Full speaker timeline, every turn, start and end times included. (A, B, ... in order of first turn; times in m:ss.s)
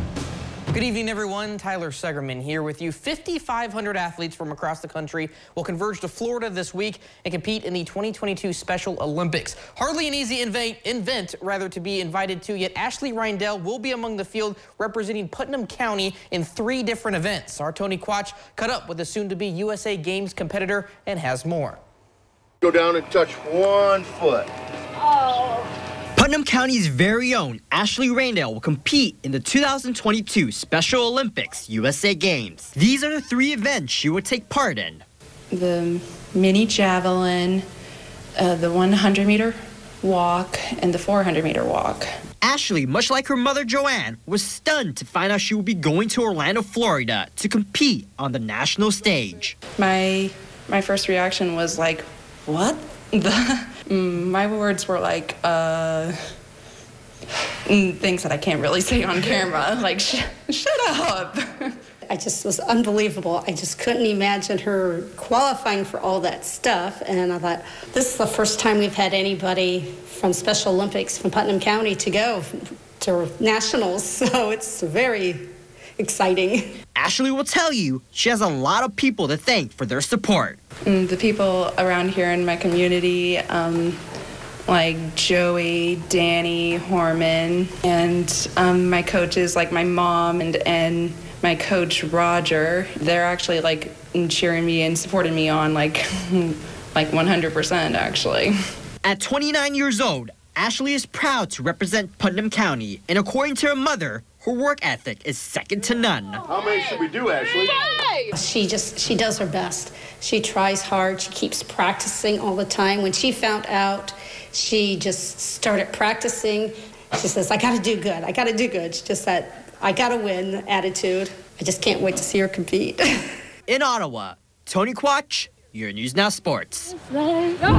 0:00.7-0:21.8 A
0:22.6-0:24.5 B
0:26.2-0:35.0 C
0:35.5-0:37.6 D
0:38.4-0:42.0 D
0:42.4-0:49.6 C
0:49.8-0:56.1 D
0:57.6-1:01.8 D
1:02.1-1:12.5 E
1:13.0-1:15.4 E
1:16.0-1:16.7 E
1:17.0-1:20.6 C
1:20.8-1:24.0 D
1:24.6-1:38.5 D
1:39.0-1:46.4 C
1:46.5-1:47.9 B
1:48.3-2:03.0 E
2:03.7-2:06.9 C